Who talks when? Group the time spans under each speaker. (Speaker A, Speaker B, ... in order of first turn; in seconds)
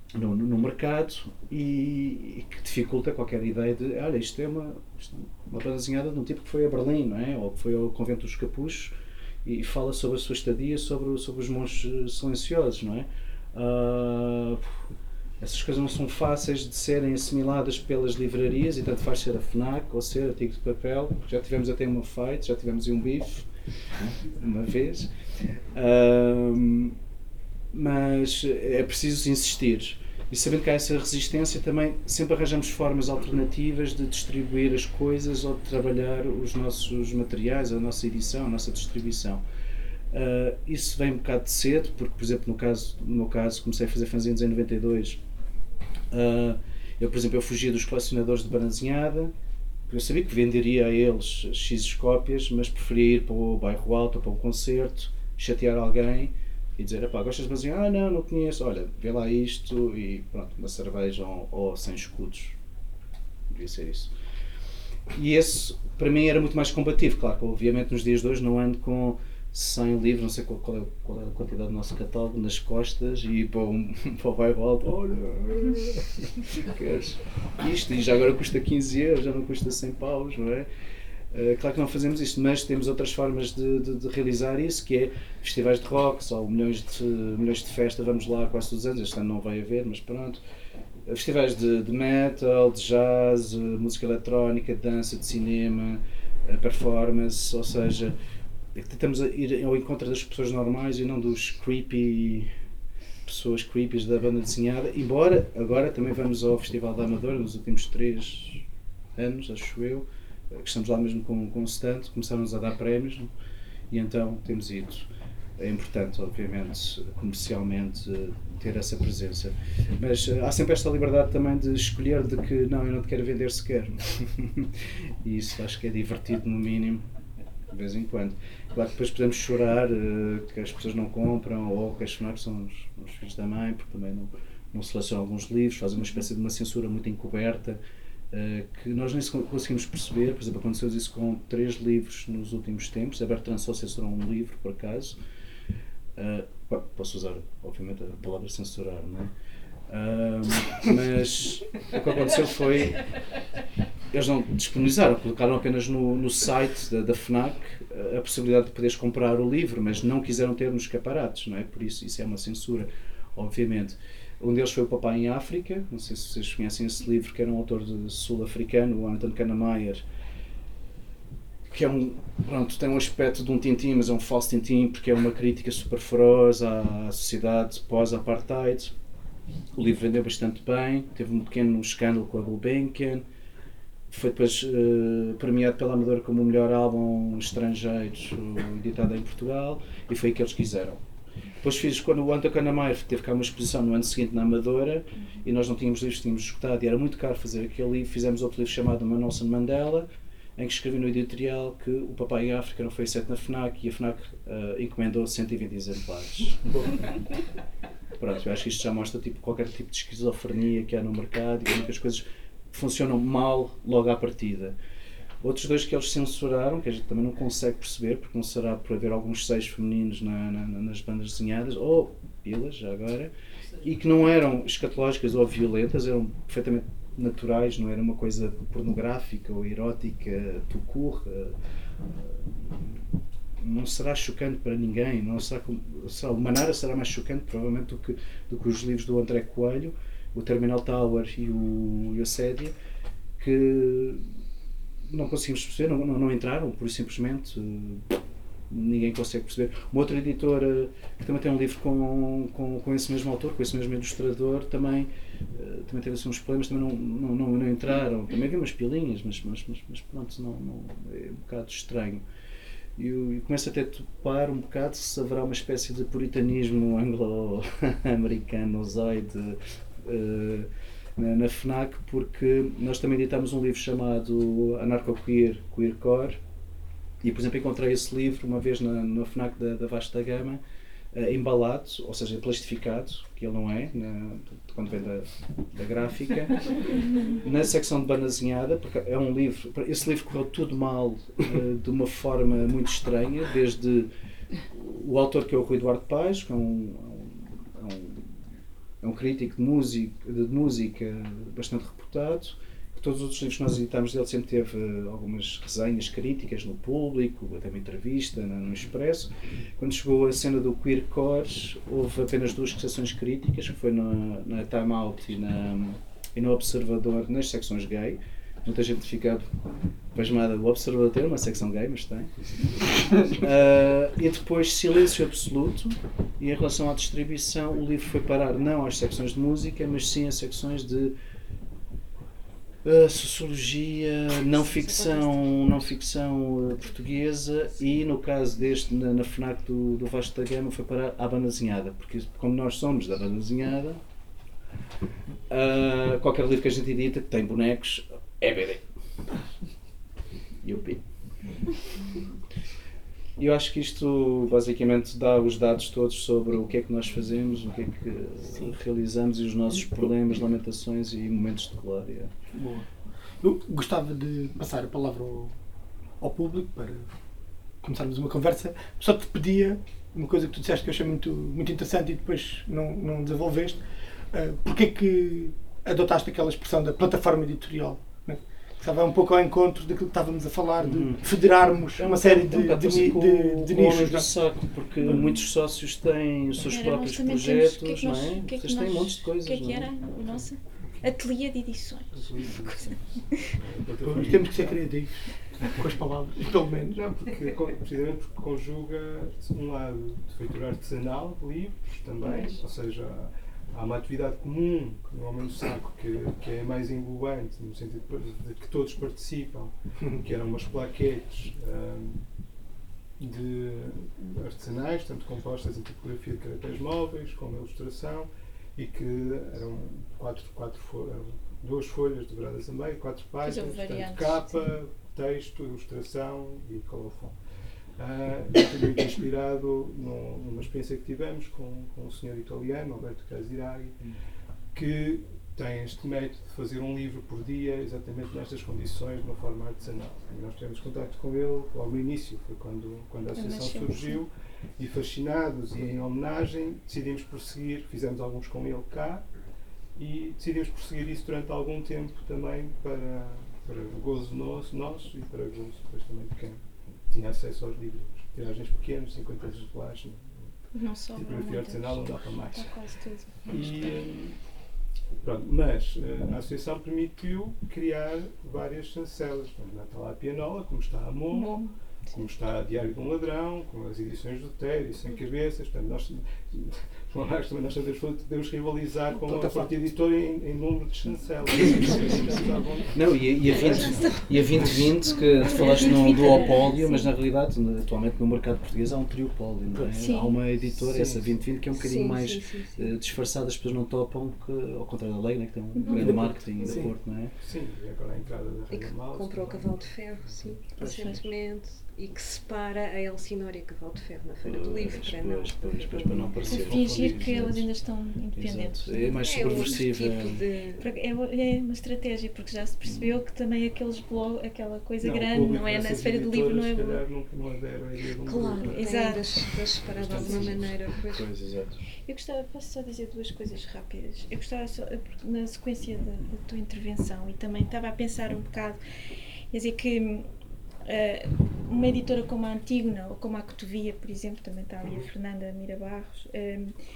Speaker A: 0.1-14.8, 15.4-23.5, 24.2-25.1, 25.7-27.0, 27.7-39.4, 40.1-45.2, 46.1-49.3, 49.9-62.6, 63.5-64.1, 65.1-76.0, 76.5-80.7, 81.3-90.4, 91.1-98.2, 98.8-102.5, 103.3-108.6, 109.2-113.3, 113.9-115.1, 115.6-127.0, 127.7-137.8, 138.3-145.2, 146.2-149.3, 149.9-153.0, 154.1-170.1, 171.7-178.9, 179.8-183.3, 184.1-191.0, 191.6-200.1, 200.6-207.0, 208.2-214.8, 215.4-233.0, 233.6-242.8, 243.4-244.2, 245.1-248.0, 248.7-262.2, 263.0-276.4, 277.2-280.6, 281.1-294.1, 294.7-298.4, 299.0-319.5, 320.1-331.1, 332.8-344.0, 345.5-348.9, 350.6-351.0, 353.4-362.3, 380.8-381.2, 382.0-389.9, 482.9-497.3, 504.4-507.7, 508.4-510.4, 512.8-513.2, 520.0-521.8
Speaker B: 335.2-335.8, 386.6-393.5, 423.4-424.7, 443.4-444.2, 460.7-464.0, 471.3-472.2, 485.4-487.1, 489.9-490.3, 500.8-501.2, 506.5-509.7, 510.8-517.0, 518.6-519.3, 522.1-528.8, 529.5-530.3, 530.9-536.7
Speaker C: 362.5-362.9, 363.4-365.5, 366.2-367.1, 367.8-384.4, 385.0-385.3, 394.0-397.1, 479.2-479.9, 495.9-496.9, 500.8-501.2
Speaker D: 392.1-394.9, 396.9-412.2, 413.2-427.4, 428.0-434.0, 434.7-449.3, 449.9-460.6, 461.1-462.9, 463.5-464.4, 465.2-471.6, 472.1-484.1, 490.6-491.4, 497.4-500.6, 515.0-519.2, 520.2-520.5
Speaker E: 483.5-486.5, 491.7-492.9, 495.9-496.7, 498.7-507.2, 509.1-510.9, 518.2-521.3